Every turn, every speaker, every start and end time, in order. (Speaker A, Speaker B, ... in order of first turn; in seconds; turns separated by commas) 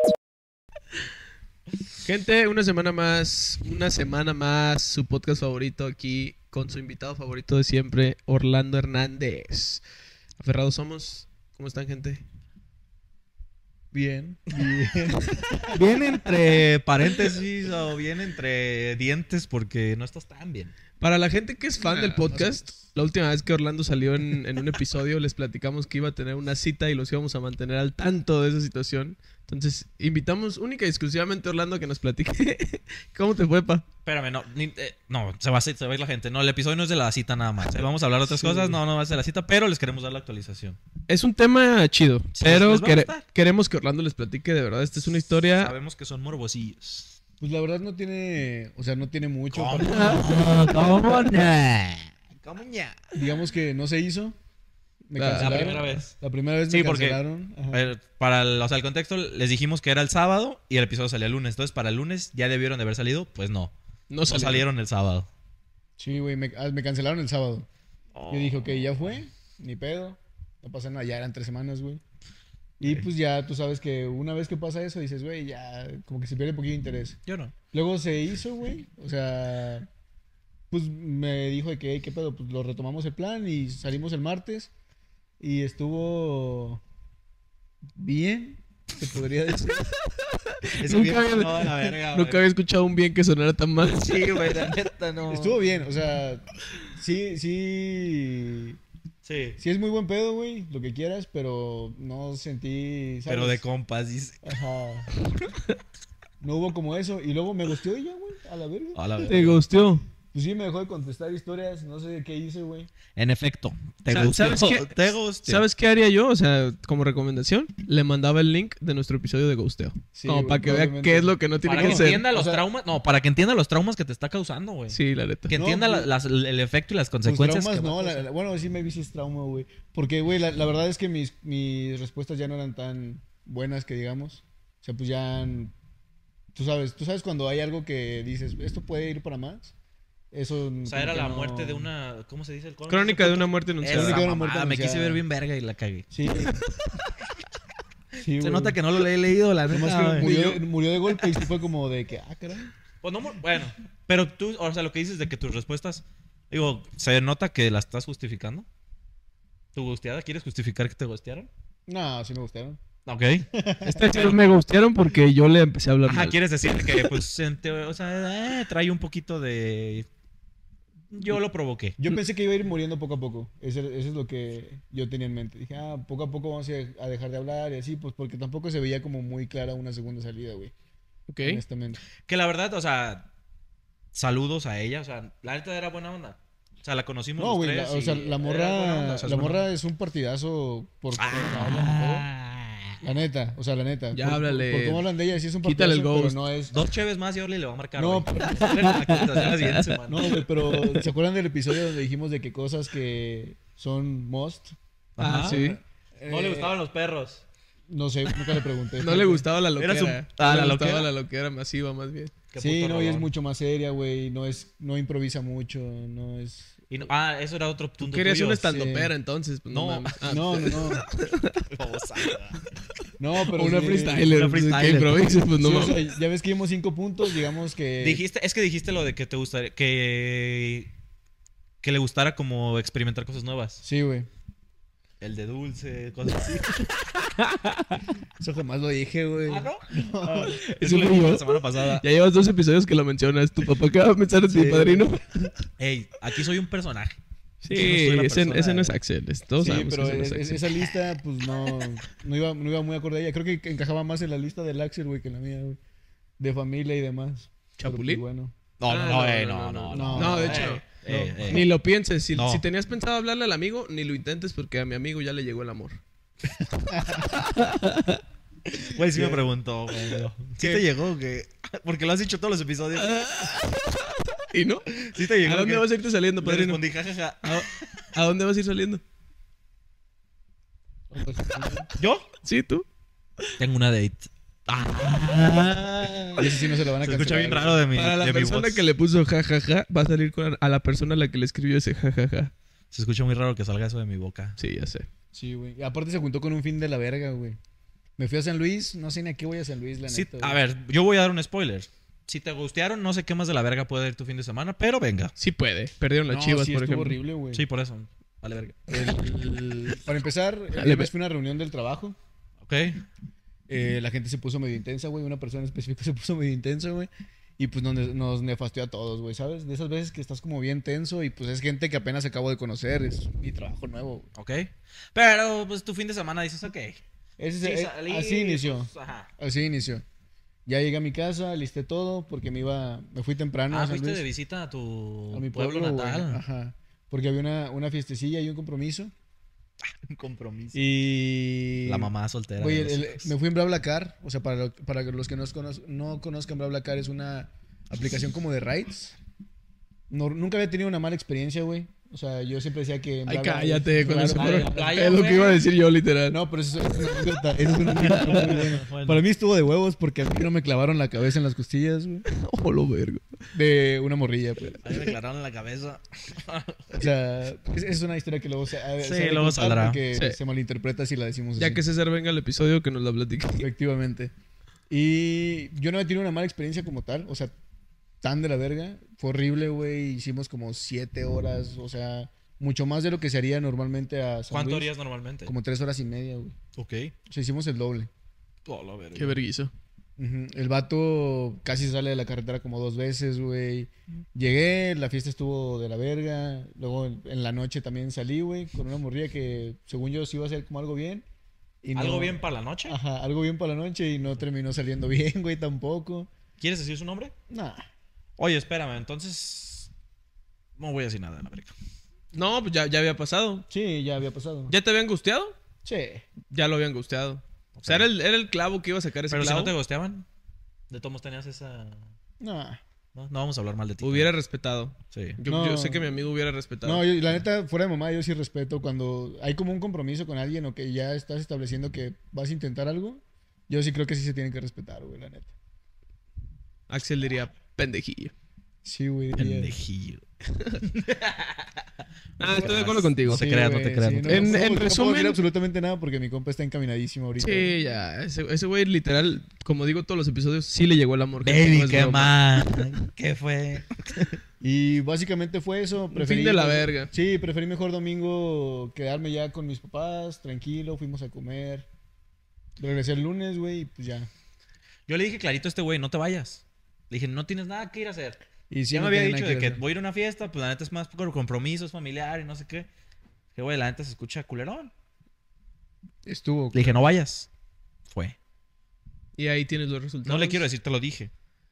Speaker A: 2.0-9.8, Speaker A: 10.4-12.2, Speaker B: 13.9-15.8, Speaker C: 14.5-14.8, Speaker C: 15.7-20.7, Speaker A: 21.0-33.9, Speaker B: 21.8-22.8, Speaker C: 34.0-40.8, Speaker B: 38.2-38.8, Speaker A: 41.1-45.7, Speaker C: 42.4-43.2, Speaker C: 45.6-47.2, Speaker B: 47.4-50.6, Speaker C: 49.5-53.1, Speaker A: 50.2-51.6, Speaker B: 53.1-54.4, Speaker B: 55.1-57.9, Speaker A: 55.1-55.8, Speaker C: 55.4-56.1, Speaker C: 56.7-57.2, Speaker C: 57.7-63.7, Speaker A: 64.1-64.6, Speaker C: 64.2-65.3, Speaker B: 66.0-67.7, Speaker C: 68.1-69.1, Speaker B: 68.3-72.0, Speaker B: 72.8-77.2, Speaker C: 72.8-73.1, Speaker C: 77.2-77.5, Speaker B: 77.7-79.9, Speaker B: 80.7-84.7, Speaker B: 85.4-86.8, Speaker B: 87.9-89.9, Speaker A: 90.6-94.7, Speaker C: 90.8-92.4, Speaker C: 93.9-95.5, Speaker B: 95.3-98.8, Speaker C: 99.2-99.6, Speaker B: 99.6-103.6, Speaker C: 103.3-104.5, Speaker B: 104.4-105.1, Speaker B: 106.4-109.0, Speaker C: 108.9-109.6, Speaker A: 109.2-110.0, Speaker B: 110.3-112.9, Speaker C: 113.1-115.6, Speaker A: 114.1-122.2, Speaker B: 120.1-122.6, Speaker C: 121.6-128.2, Speaker A: 124.9-125.5, Speaker B: 125.5-126.1, Speaker B: 127.2-135.7, Speaker B: 136.5-139.7, Speaker B: 140.3-141.9, Speaker C: 140.8-146.1, Speaker A: 142.9-144.2, Speaker B: 143.9-145.2, Speaker B: 146.1-146.6, Speaker B: 148.2-148.8, Speaker C: 148.4-150.3, Speaker B: 149.7-152.7, Speaker A: 150.2-150.6, Speaker C: 153.0-158.7, Speaker C: 159.7-161.5, Speaker B: 161.9-162.8, Speaker C: 163.1-163.5, Speaker B: 163.5-164.1, Speaker A: 163.8-167.1, Speaker C: 166.0-170.1, Speaker C: 171.1-172.0, Speaker B: 172.0-180.7, Speaker A: 181.3-181.6, Speaker B: 181.4-182.0, Speaker C: 182.2-183.3, Speaker C: 184.1-189.7, Speaker B: 187.4-192.3, Speaker C: 191.2-193.0, Speaker B: 193.0-196.8, Speaker A: 194.1-195.1, Speaker A: 195.6-196.4, Speaker C: 196.7-200.4, Speaker B: 197.9-198.7, Speaker A: 198.6-199.9, Speaker B: 200.0-204.8, Speaker A: 200.6-201.1, Speaker C: 205.2-205.6, Speaker A: 205.2-205.8, Speaker B: 205.3-206.8, Speaker C: 206.3-207.4, Speaker B: 207.9-209.4, Speaker A: 209.0-212.3, Speaker C: 209.8-211.1, Speaker C: 212.5-213.3, Speaker B: 212.6-217.1, Speaker C: 216.9-218.7, Speaker A: 218.0-221.7, Speaker B: 218.6-219.1, Speaker C: 219.7-220.3, Speaker B: 220.2-221.0, Speaker C: 221.7-222.6, Speaker A: 222.2-222.6, Speaker B: 223.2-224.3, Speaker A: 223.5-226.1, Speaker C: 224.3-225.4, Speaker B: 225.6-228.2, Speaker C: 228.0-230.9, Speaker C: 231.8-233.8, Speaker B: 233.8-234.3, Speaker C: 235.2-237.0, Speaker A: 237.1-238.0, Speaker B: 238.4-240.6, Speaker C: 239.4-242.0, Speaker A: 240.6-245.5, Speaker B: 244.5-245.1, Speaker C: 245.8-247.2, Speaker A: 247.6-250.6, Speaker C: 247.7-249.0, Speaker B: 249.6-255.8, Speaker B: 256.4-258.5, Speaker A: 257.8-258.2, Speaker C: 258.8-261.7, Speaker A: 258.9-260.8, Speaker B: 259.9-261.7, Speaker A: 261.5-266.0, Speaker C: 262.3-262.6, Speaker B: 266.9-267.2, Speaker A: 267.1-268.2, Speaker C: 268.8-273.2, Speaker B: 269.1-269.4, Speaker A: 272.9-276.8, Speaker C: 275.0-275.9, Speaker C: 276.4-277.9, Speaker A: 277.4-279.0, Speaker B: 281.1-281.9, Speaker C: 282.0-282.3, Speaker A: 282.4-282.9, Speaker C: 283.6-288.8, Speaker B: 286.4-287.8, Speaker A: 287.9-292.5, Speaker C: 292.9-294.6, Speaker A: 294.6-295.1, Speaker B: 295.3-297.6, Speaker B: 298.2-300.6, Speaker C: 300.1-305.3, Speaker A: 305.4-307.2, Speaker B: 306.3-307.6, Speaker C: 307.5-309.2, Speaker B: 308.9-312.2, Speaker A: 310.7-311.1, Speaker C: 312.6-313.0, Speaker B: 313.7-324.3, Speaker C: 324.4-327.0, Speaker B: 327.4-330.0, Speaker C: 327.6-329.3, Speaker B: 330.6-334.2, Speaker C: 333.7-336.4, Speaker B: 335.3-339.1, Speaker C: 340.0-340.9, Speaker B: 340.7-349.1, Speaker C: 341.9-343.3, Speaker B: 350.1-354.9, Speaker A: 353.2-356.4, Speaker C: 354.2-355.6, Speaker B: 356.3-362.2, Speaker C: 357.8-359.2, Speaker A: 362.2-363.3, Speaker B: 363.5-365.1, Speaker C: 364.8-367.1, Speaker B: 366.9-371.8, Speaker C: 369.0-370.0, Speaker A: 370.1-370.4, Speaker A: 371.6-373.7, Speaker B: 373.6-374.3, Speaker B: 374.9-377.5, Speaker B: 378.2-384.9, Speaker C: 384.5-385.5, Speaker B: 385.4-386.5, Speaker C: 386.8-387.1, Speaker B: 387.3-388.1, Speaker C: 388.6-389.4, Speaker A: 389.1-389.7, Speaker B: 390.2-401.2, Speaker B: 401.8-406.3, Speaker C: 401.9-403.0, Speaker C: 406.6-407.3, Speaker B: 407.5-407.8, Speaker C: 408.4-409.9, Speaker C: 410.8-411.7, Speaker A: 412.3-413.7, Speaker B: 413.7-414.7, Speaker A: 414.7-415.6, Speaker B: 415.8-416.2, Speaker A: 416.5-419.7, Speaker C: 417.8-418.1, Speaker C: 419.3-420.2, Speaker C: 420.9-422.1, Speaker B: 422.4-422.8, Speaker C: 423.1-424.3, Speaker A: 424.0-427.0, Speaker C: 425.1-425.4, Speaker B: 425.4-426.2, Speaker B: 426.8-435.5, Speaker A: 436.9-438.3, Speaker B: 438.8-439.7, Speaker C: 439.3-440.2, Speaker A: 440.6-440.8, Speaker C: 440.9-441.7, Speaker A: 442.4-443.5, Speaker C: 442.4-444.6, Speaker B: 443.2-447.7, Speaker A: 444.2-445.4, Speaker A: 447.4-453.0, Speaker C: 451.4-454.2, Speaker B: 454.6-461.9, Speaker A: 456.1-457.1, Speaker B: 462.8-464.3, Speaker C: 465.1-468.4, Speaker B: 468.7-469.8, Speaker C: 468.9-472.9, Speaker C: 473.5-474.9, Speaker B: 476.2-477.0, Speaker C: 476.7-477.5, Speaker C: 478.1-478.4, Speaker A: 479.4-480.6, Speaker C: 480.2-481.3